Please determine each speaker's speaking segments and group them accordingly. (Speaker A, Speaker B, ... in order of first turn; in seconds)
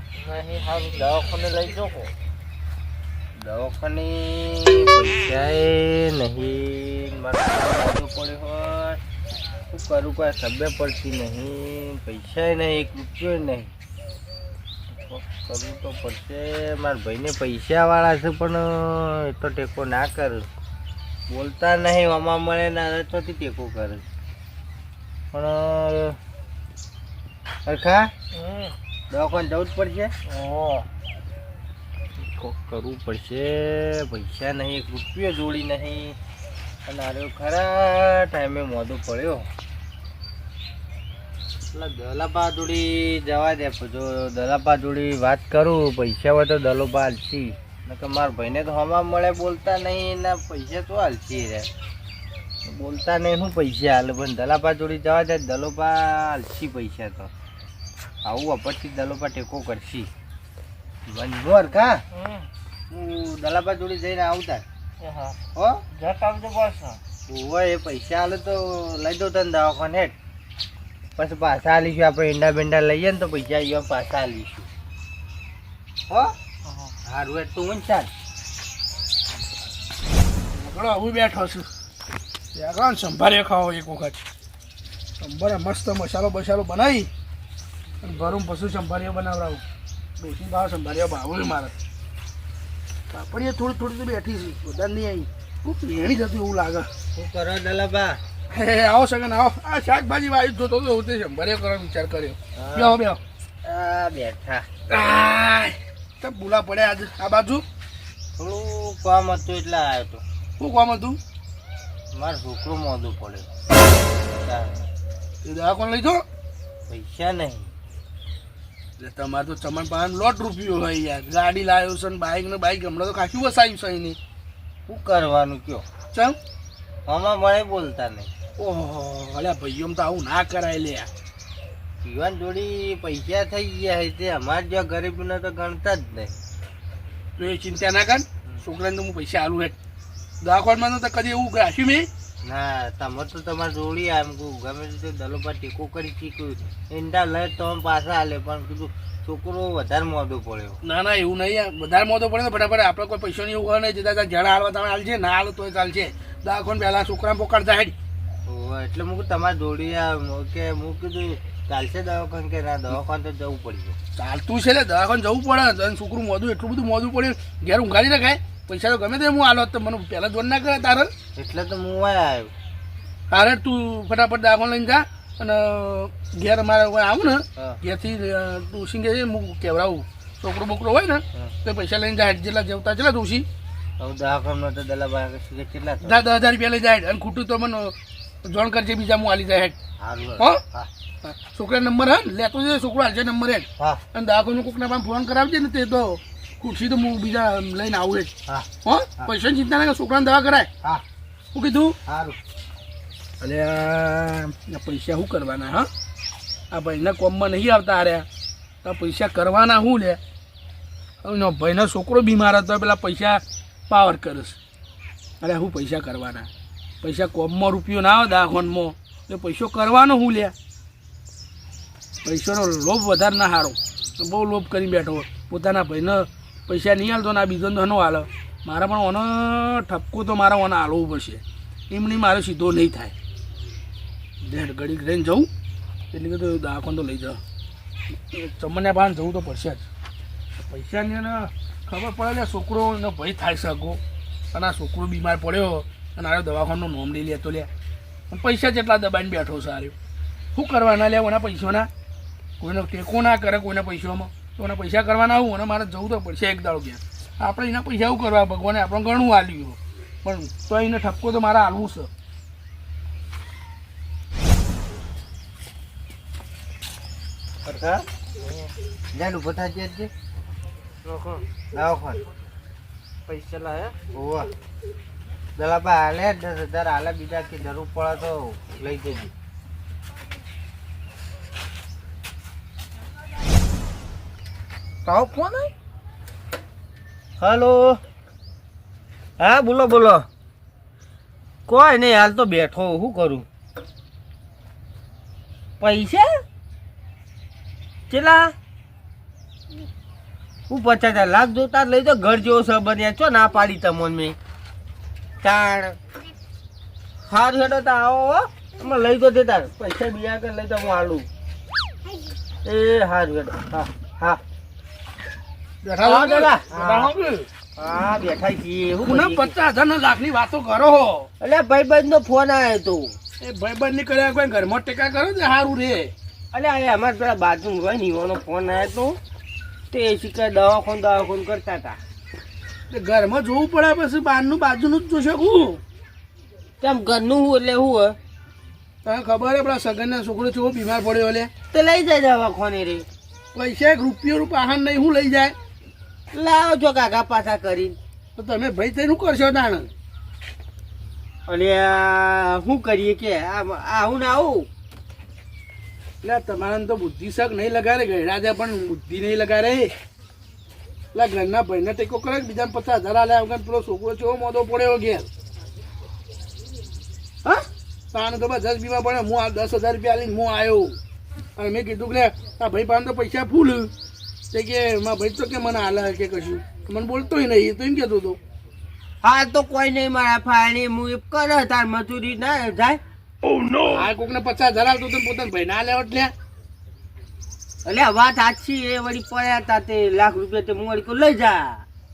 Speaker A: 0.1-2.1, 28.4-28.7, 30.2-30.9, 62.1-62.5, 65.0-65.4, 65.9-67.0, 271.1-271.4, 273.3-274.0
Speaker B: 1.2-2.0, 3.4-9.0, 9.7-13.7, 14.9-20.5, 21.3-24.0, 25.3-26.2, 27.6-28.1, 29.1-30.1, 32.2-36.2, 36.9-39.5, 41.7-51.7, 52.6-57.3, 58.2-60.1, 61.1-62.1, 62.9-64.7, 65.5-65.9, 67.3-70.2, 71.2-74.7, 77.0-78.1, 97.2-98.2, 102.6-103.0, 103.6-104.7, 108.4-110.2, 112.1-113.5, 114.3-114.9, 116.9-117.7, 124.9-125.8, 127.0-128.3, 132.0-136.4, 142.4-150.8, 158.4-163.9, 171.3-172.5, 184.0-186.2, 190.0-190.9, 202.1-202.4, 267.6-268.1, 269.1-270.1, 271.7-272.2, 274.1-274.5, 275.6-279.3, 285.1-285.7, 287.4-288.0, 289.4-290.2, 291.7-293.5, 295.8-296.3, 298.1-298.6, 300.7-304.4, 305.4-306.0, 307.3-311.3, 312.6-314.4, 316.0-317.1, 317.8-319.5, 321.4-323.1, 326.5-329.2, 329.9-332.0, 336.8-338.2, 341.7-343.1, 346.3-348.0, 351.5-354.7, 379.2-383.0, 387.9-391.9
Speaker C: 80.5-81.7, 82.5-84.2, 85.2-87.1, 88.0-89.6, 90.2-91.8, 93.1-96.9, 98.5-103.2, 104.9-107.6, 110.6-111.2, 115.4-116.2, 119.0-124.2, 126.1-126.4, 128.6-131.1, 137.4-139.8, 140.4-142.1, 150.8-157.9, 164.2-171.1, 173.3-183.5, 186.0-187.9, 188.4-189.8, 191.2-198.3, 198.8-200.7, 201.5-202.0, 203.4-205.9, 206.7-208.2, 208.8-210.2, 211.2-214.6, 215.4-216.5, 217.0-220.5, 222.2-233.1, 234.4-235.5, 236.1-237.4, 238.3-239.8, 240.7-244.0, 244.5-247.7, 248.3-249.9, 250.5-251.9, 252.6-262.1, 315.8-317.5, 319.0-321.3, 323.4-326.1, 332.9-335.8, 339.1-341.5, 343.5-345.6, 348.4-349.9, 356.2-359.9, 361.1-365.3, 368.1-371.0, 371.6-373.9, 374.5-378.4, 383.8-386.3